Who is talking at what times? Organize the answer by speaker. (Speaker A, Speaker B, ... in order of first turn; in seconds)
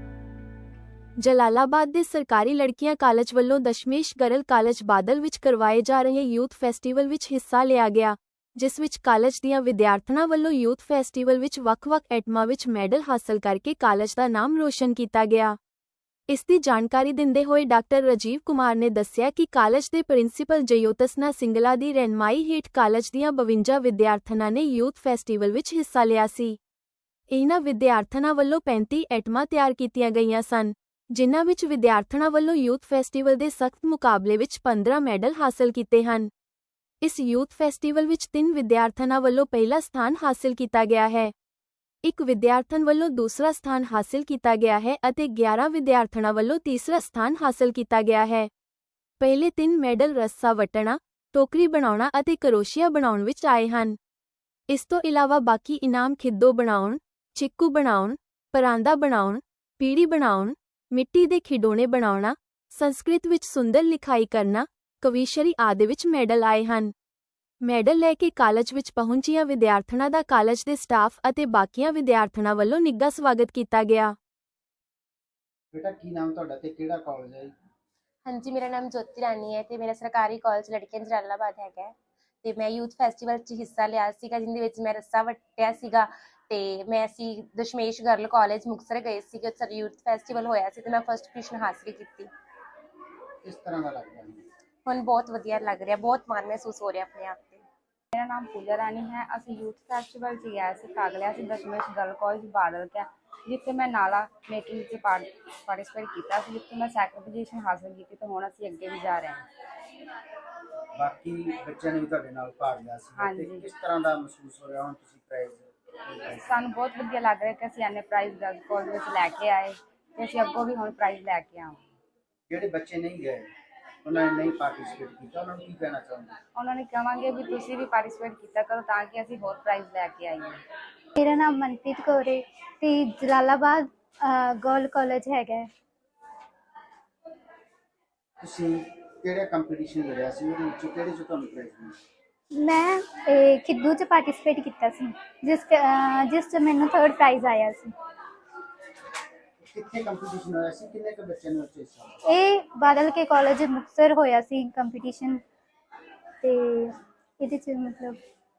Speaker A: 1.2-15.6, 16.3-26.6, 27.3-36.3, 37.0-41.3, 42.0-48.5, 49.2-54.0, 54.7-66.9, 67.6-74.2
Speaker B: 75.7-77.5, 93.4-94.4, 111.0-116.5, 122.5-123.5, 124.0-126.4, 138.4-141.9, 149.6-152.2
Speaker C: 78.2-92.3, 94.8-97.6
Speaker D: 98.1-109.4, 113.2-113.7, 116.5-121.8, 126.5-130.6
Speaker E: 131.2-135.7, 142.6-147.9, 152.3-155.4, 156.4-158.2